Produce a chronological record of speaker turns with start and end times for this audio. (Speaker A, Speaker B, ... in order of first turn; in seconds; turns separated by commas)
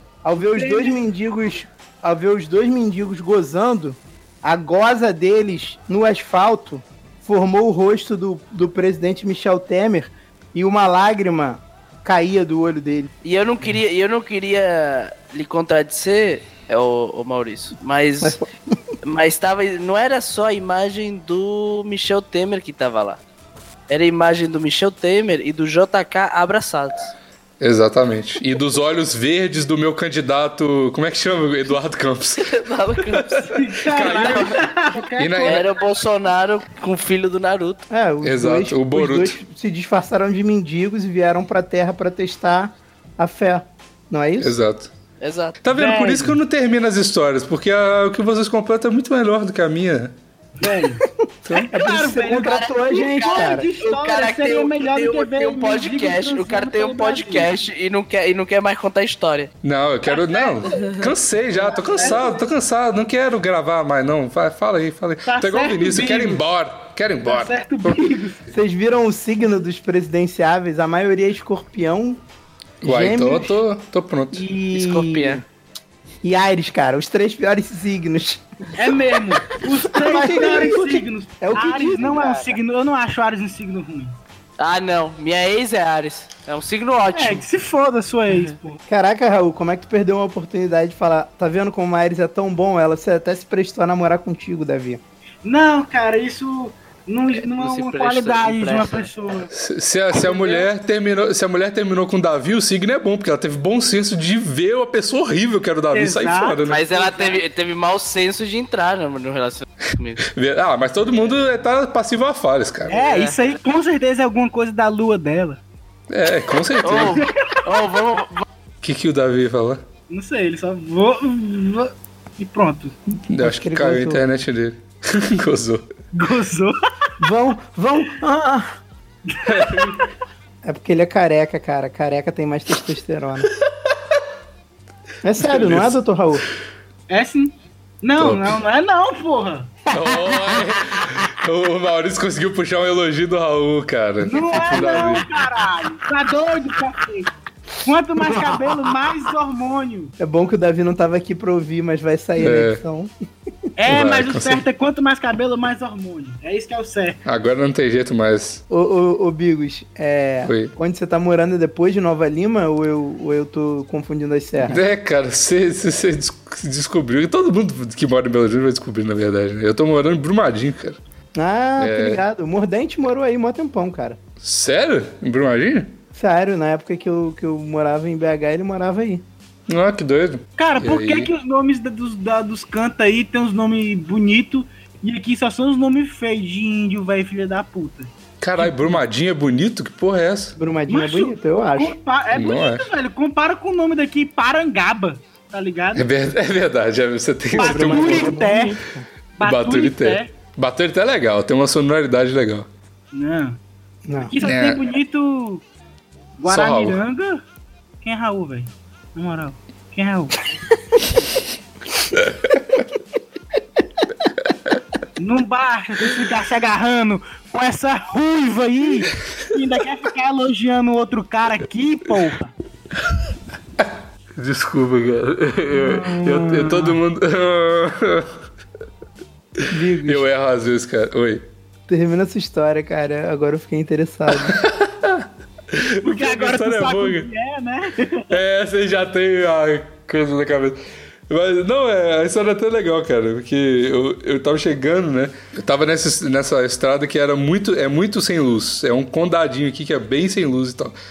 Speaker A: 0.2-13.1, Speaker B: 0.5-1.0, Speaker C: 13.2-18.4, Speaker A: 18.2-18.5, Speaker C: 19.0-23.2, Speaker C: 23.9-27.1, Speaker D: 27.6-32.5, Speaker C: 32.4-34.6, Speaker D: 33.1-35.7, Speaker B: 33.5-35.7, Speaker C: 35.5-37.8, Speaker A: 37.9-44.5, Speaker D: 38.2-39.4, Speaker D: 44.4-44.9, Speaker C: 45.2-45.6, Speaker D: 45.6-50.1, Speaker B: 45.7-46.4, Speaker B: 50.6-51.0, Speaker D: 51.5-51.7, Speaker A: 51.7-53.7, Speaker B: 51.7-57.5, Speaker C: 52.4-59.5, Speaker D: 59.6-67.9, Speaker B: 60.1-60.9, Speaker B: 61.6-62.4, Speaker B: 65.2-66.4, Speaker B: 67.2-68.4, Speaker A: 68.5-72.2, Speaker D: 72.8-74.5, Speaker A: 72.8-73.6, Speaker A: 74.3-75.4, Speaker C: 74.7-75.4, Speaker A: 76.2-78.8, Speaker B: 78.8-84.2, Speaker A: 79.9-82.6, Speaker C: 84.6-87.5, Speaker B: 87.1-88.8, Speaker A: 88.9-95.0, Speaker B: 95.4-99.5, Speaker C: 97.3-99.1, Speaker D: 99.5-106.8, Speaker B: 100.2-100.7, Speaker B: 105.9-107.4, Speaker C: 106.7-110.2, Speaker D: 110.2-113.0, Speaker B: 112.9-115.6, Speaker C: 112.9-113.4, Speaker D: 116.1-117.2, Speaker C: 116.8-118.4, Speaker B: 117.2-117.5, Speaker D: 118.8-119.8, Speaker B: 120.1-123.0, Speaker D: 123.3-125.9, Speaker A: 123.4-124.2, Speaker B: 126.1-126.8, Speaker A: 127.2-128.7, Speaker B: 129.3-130.1, Speaker D: 129.5-129.9, Speaker A: 130.6-133.5, Speaker A: 135.2-136.4, Speaker D: 135.4-136.0, Speaker B: 137.1-139.8, Speaker D: 138.2-138.5, Speaker D: 139.9-145.3, Speaker B: 144.2-147.3, Speaker A: 144.7-145.2, Speaker B: 147.8-150.1, Speaker A: 148.3-148.6, Speaker A: 150.2-153.1, Speaker D: 152.4-152.8, Speaker B: 153.8-157.2, Speaker D: 153.9-154.6, Speaker D: 157.2-158.6, Speaker A: 158.7-164.8, Speaker D: 160.4-160.7, Speaker D: 164.6-171.0, Speaker A: 171.3-174.2, Speaker D: 171.8-172.2, Speaker D: 174.4-176.0, Speaker A: 176.2-179.2, Speaker D: 179.7-181.3, Speaker B: 180.6-189.0, Speaker D: 188.4-190.6, Speaker A: 190.6-192.0, Speaker B: 190.9-196.1, Speaker D: 192.3-192.9, Speaker D: 195.9-198.4, Speaker A: 197.5-199.1, Speaker B: 197.6-198.8, Speaker B: 199.4-200.3, Speaker D: 199.4-202.7, Speaker B: 203.1-203.6, Speaker A: 204.1-204.3, Speaker B: 204.2-205.6, Speaker D: 204.4-204.8, Speaker B: 206.4-207.4, Speaker D: 206.5-207.0, Speaker B: 208.0-210.4, Speaker D: 212.2-212.5, Speaker B: 215.2-222.5, Speaker D: 224.4-228.3, Speaker B: 225.8-227.0, Speaker D: 229.6-231.4, Speaker A: 229.7-230.2, Speaker A: 231.9-234.6, Speaker D: 234.4-237.3, Speaker B: 236.0-238.3, Speaker D: 238.3-250.9